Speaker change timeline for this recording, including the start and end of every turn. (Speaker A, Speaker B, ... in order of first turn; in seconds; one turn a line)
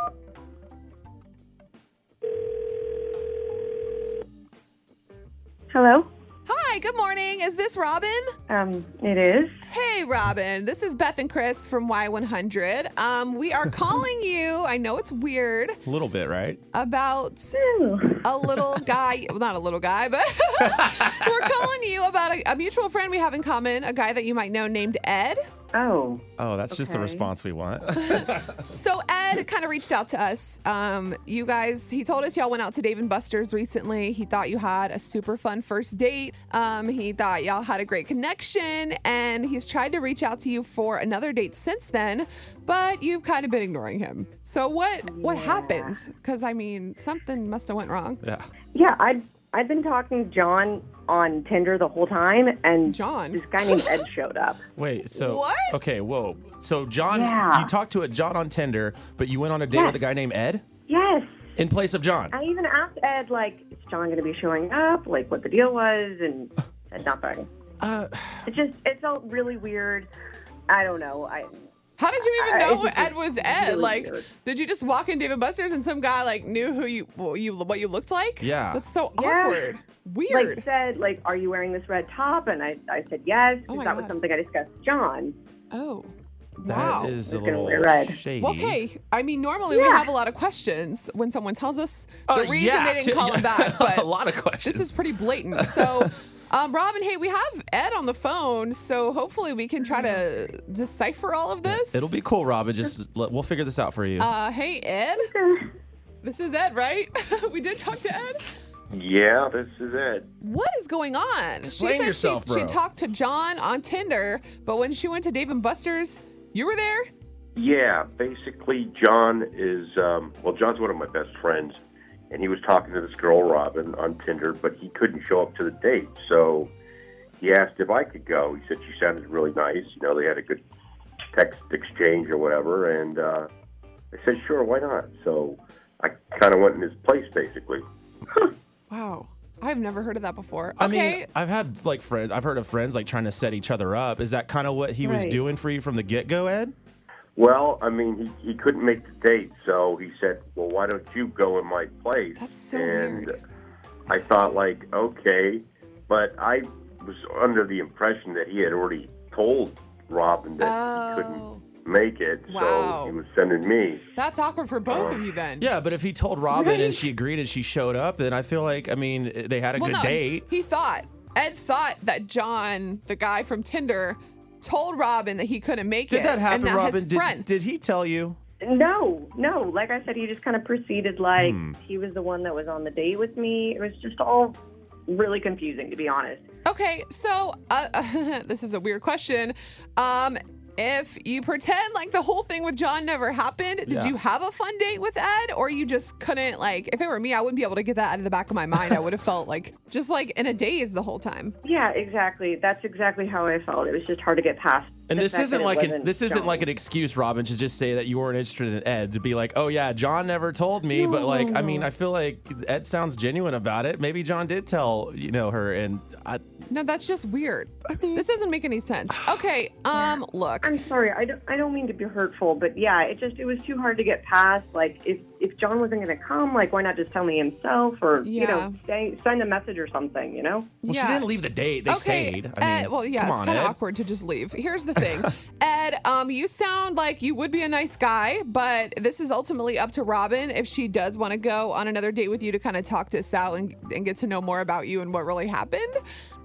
Speaker A: 5.7-6.1
Speaker B: 6.5-8.2
Speaker A: 8.5-9.6
Speaker B: 9.7-15.8
Speaker C: 15.8-16.6
Speaker B: 16.7-17.6
Speaker A: 17.6-18.2
Speaker B: 18.2-25.4
Speaker C: 20.7-21.4
Speaker A: 25.7-27.3
Speaker C: 26.4-28.6
Speaker B: 27.9-48.2
Speaker A: 45.1-45.9
Speaker C: 48.2-48.5
Speaker A: 48.7-54.6
Speaker B: 52.8-53.4
Speaker C: 54.8-60.6
Speaker B: 55.1-55.7
Speaker A: 57.1-57.7
Speaker A: 59.7-60.0
Speaker A: 60.9-61.5
Speaker C: 61.6-62.3
Speaker A: 62.3-67.5
Speaker C: 67.8-68.5
Speaker A: 68.4-70.1
Speaker A: 70.7-71.5
Speaker B: 72.0-80.6
Speaker A: 72.2-74.2
Speaker C: 78.4-78.8
Speaker A: 79.1-79.8
Speaker A: 80.3-85.3
Speaker B: 83.7-84.1
Speaker B: 85.7-86.1
Speaker A: 86.6-88.2
Speaker C: 86.7-88.8
Speaker B: 86.7-87.2
Speaker B: 88.4-94.1
Speaker A: 89.7-90.0
Speaker C: 92.3-96.1
Speaker B: 94.6-102.1
Speaker C: 101.6-104.3
Speaker B: 104.2-105.3
Speaker A: 105.3-105.7
Speaker B: 106.2-108.5
Speaker C: 108.1-108.6
Speaker D: 108.9-110.3
Speaker B: 110.4-117.1
Speaker C: 111.6-112.8
Speaker D: 117.5-126.7
Speaker D: 127.4-130.6
Speaker D: 131.3-133.5
Speaker D: 134.1-137.8
Speaker B: 138.9-141.2
Speaker C: 140.8-146.7
Speaker A: 145.0-145.4
Speaker D: 147.3-153.4
Speaker B: 152.4-153.3
Speaker D: 154.1-164.0
Speaker B: 160.6-161.6
Speaker B: 162.5-163.2
Speaker B: 164.2-165.7
Speaker D: 164.9-165.2
Speaker C: 165.6-170.5
Speaker A: 166.5-167.0
Speaker B: 169.7-177.5
Speaker C: 176.1-178.4
Speaker A: 178.6-186.4
Speaker C: 181.3-181.7
Speaker B: 186.6-201.6
Speaker C: 193.9-194.2
Speaker A: 201.6-206.7
Speaker C: 205.1-216.4
Speaker A: 210.9-211.9
Speaker B: 216.7-220.7
Speaker C: 217.8-218.2
Speaker A: 219.9-230.7
Speaker B: 228.1-228.7
Speaker B: 230.8-231.3
Speaker C: 230.9-233.8
Speaker B: 231.8-245.9
Speaker C: 234.9-235.3